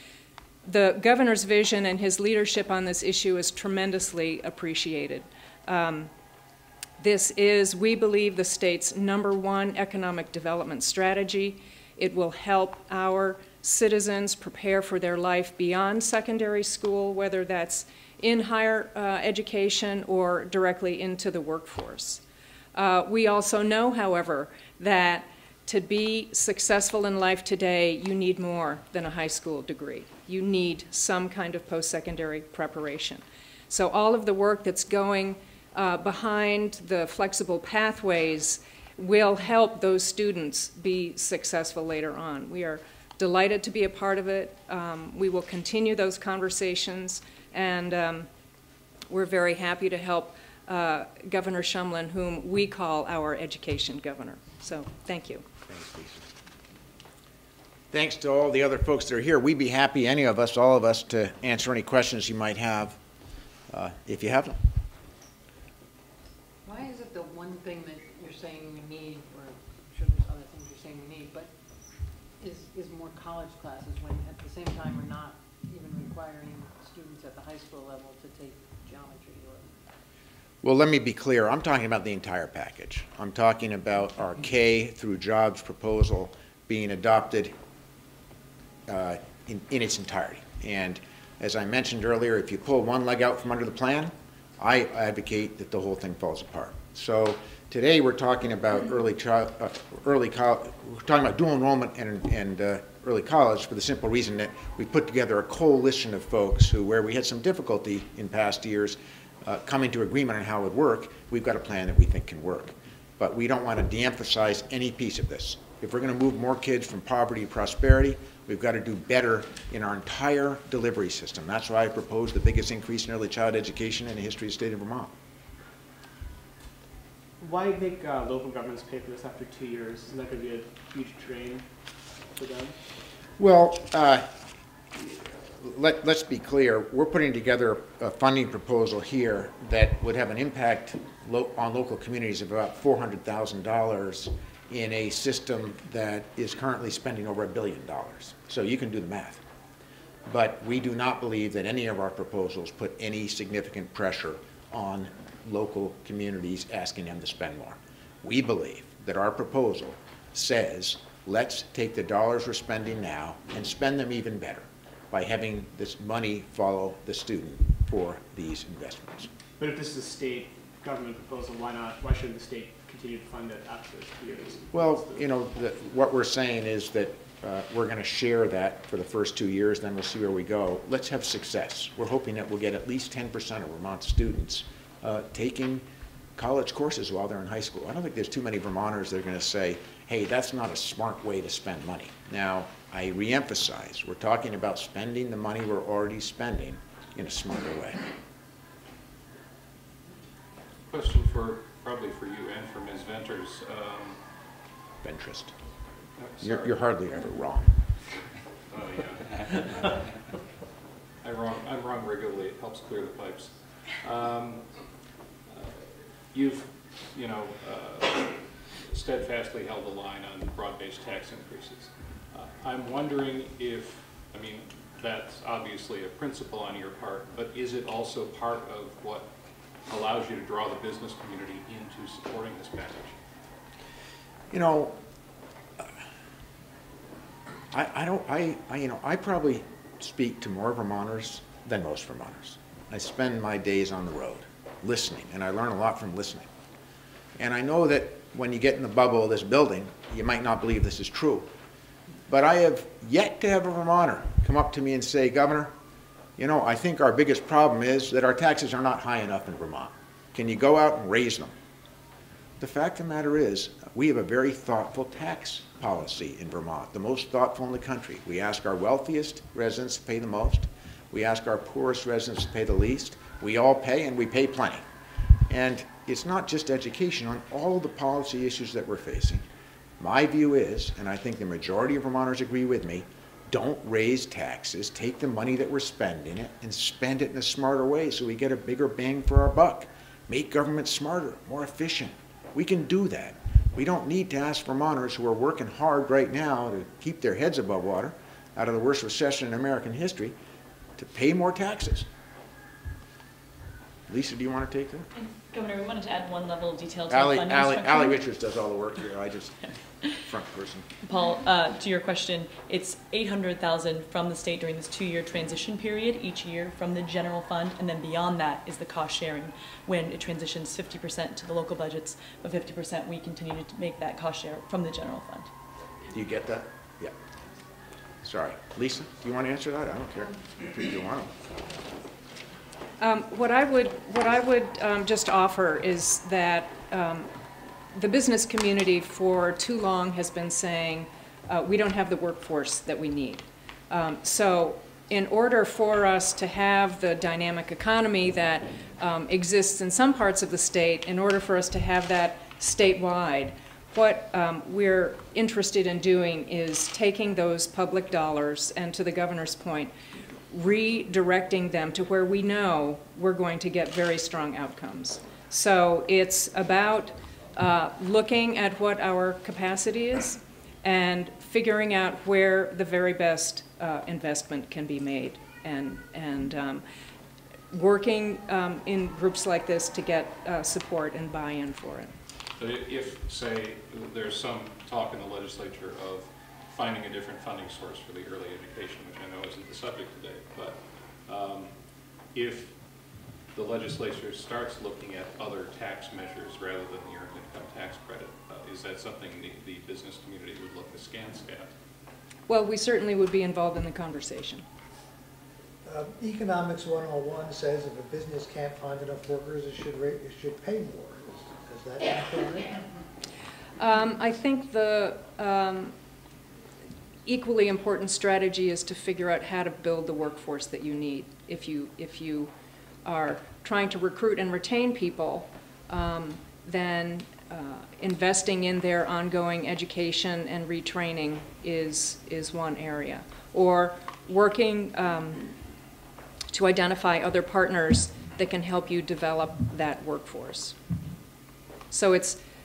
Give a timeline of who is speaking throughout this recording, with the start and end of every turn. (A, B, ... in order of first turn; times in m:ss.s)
0:00.6-0:06.1 A
0:07.0-0:22.2 A
0:22.7-0:48.3 A
0:49.1-0:55.5 A
0:55.7-0:56.3 B
0:57.9-1:03.0 B
1:03.7-1:04.6 B
1:06.6-1:11.5 C
1:12.4-1:19.8 C
1:20.6-1:27.5 B
1:28.9-2:05.1 B
2:07.4-2:11.7 D
2:12.4-2:12.8 D
2:13.4-2:14.3 B
2:15.0-2:29.4 B
2:30.3-2:49.3 B
2:49.6-2:55.3 D
2:54.7-3:05.9 B
3:06.4-3:18.0 B
3:20.9-3:24.2 E
3:25.0-3:25.5 B
3:26.2-3:26.8 E
3:26.4-3:27.7 B
3:28.7-3:30.1 E
3:31.2-3:34.7 E
3:35.5-3:49.3 E
3:49.9-3:53.2 E
3:54.5-3:55.0 B
3:57.7-4:06.5 B
4:07.4-4:11.5 B
4:12.3-4:15.7 B
4:16.4-4:21.5 B
4:22.6-4:34.8 B
4:35.5-4:39.4 B
4:40.0-5:00.4 B
5:01.0-5:02.1 B
5:04.1-5:05.1 B
5:05.2-5:08.2 F
5:07.1-5:10.9 B
5:11.0-5:25.5 F
5:26.1-5:27.2 B
5:28.2-5:31.3 B
5:33.0-5:37.3 A
5:37.9-5:59.9 A
6:00.5-6:16.8 A
6:17.7-6:22.1 A
6:22.6-6:31.8 E
6:32.3-6:32.8 E
6:33.5-6:41.7 E
6:42.5-6:44.6 A
6:45.8-6:52.8 G
6:53.8-6:56.0 A
6:57.3-7:02.5 A
7:03.0-7:15.5 A
7:16.5-7:20.8 A
7:21.9-7:22.4 A